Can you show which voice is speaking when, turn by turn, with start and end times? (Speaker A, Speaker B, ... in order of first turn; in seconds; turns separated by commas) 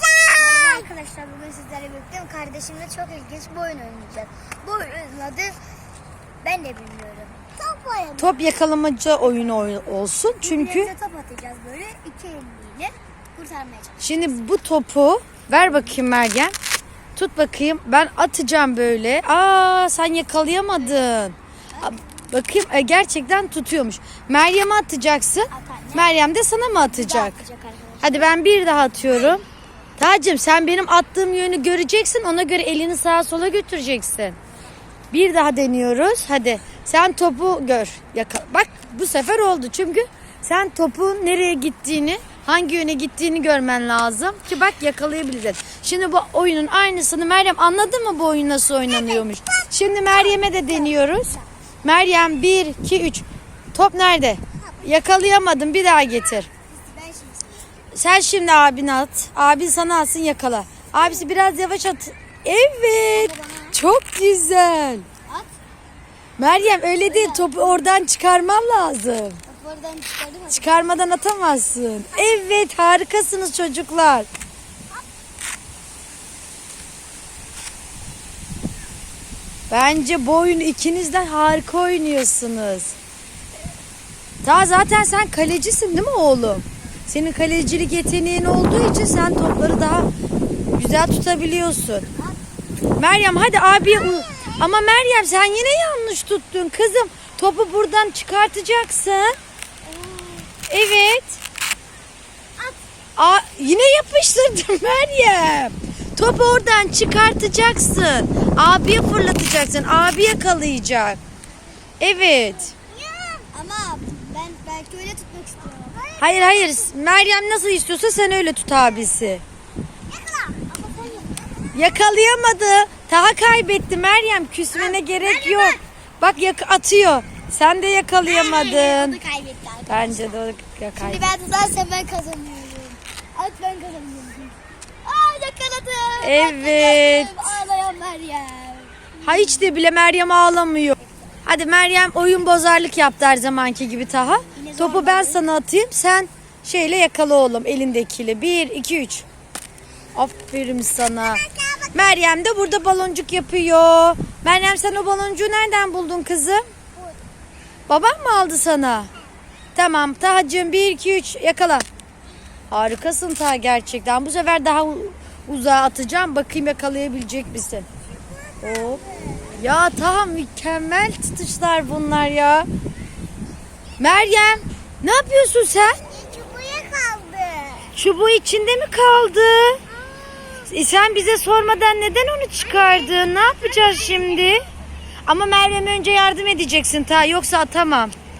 Speaker A: 0.3-5.5, Speaker A: 6.4-8.5, Speaker B: 8.2-10.9, Speaker A: 10.3-14.3, Speaker B: 14.0-16.5, Speaker A: 15.7-16.0, Speaker B: 17.1-27.4, Speaker A: 21.7-22.0, Speaker A: 25.5-26.2, Speaker A: 26.8-28.4, Speaker B: 28.0-29.4, Speaker A: 29.0-29.4, Speaker B: 30.0-34.4, Speaker B: 35.1-51.3, Speaker A: 48.9-51.5, Speaker B: 51.8-56.5, Speaker A: 54.6-55.0, Speaker A: 56.7-57.7, Speaker B: 57.9-65.0, Speaker A: 61.0-61.2, Speaker A: 63.1-63.8, Speaker B: 66.4-69.4, Speaker A: 67.0-67.5, Speaker A: 69.5-70.9, Speaker B: 70.5-74.3, Speaker B: 79.7-82.9, Speaker B: 84.4-90.1, Speaker B: 90.7-92.1, Speaker B: 93.0-99.3, Speaker A: 93.9-94.7, Speaker A: 99.8-100.5, Speaker B: 100.7-101.4, Speaker B: 103.2-111.2, Speaker B: 112.0-112.7, Speaker A: 112.7-116.9, Speaker B: 116.2-119.4, Speaker A: 120.1-121.7, Speaker B: 121.7-129.2, Speaker A: 124.7-125.8, Speaker A: 128.2-130.4, Speaker B: 129.9-131.3, Speaker A: 131.0-139.7, Speaker B: 136.2-137.5, Speaker B: 139.2-149.2, Speaker A: 144.5-145.4, Speaker B: 150.1-151.4, Speaker A: 151.3-152.0, Speaker B: 151.9-156.6, Speaker B: 157.9-159.1, Speaker B: 159.7-161.8, Speaker B: 162.7-167.8, Speaker A: 168.2-169.6, Speaker B: 168.6-169.0, Speaker B: 169.6-172.7, Speaker B: 174.0-176.0, Speaker A: 175.8-177.9, Speaker B: 177.9-179.8, Speaker A: 179.9-180.7, Speaker B: 180.7-184.6, Speaker A: 182.7-184.5, Speaker B: 185.2-188.1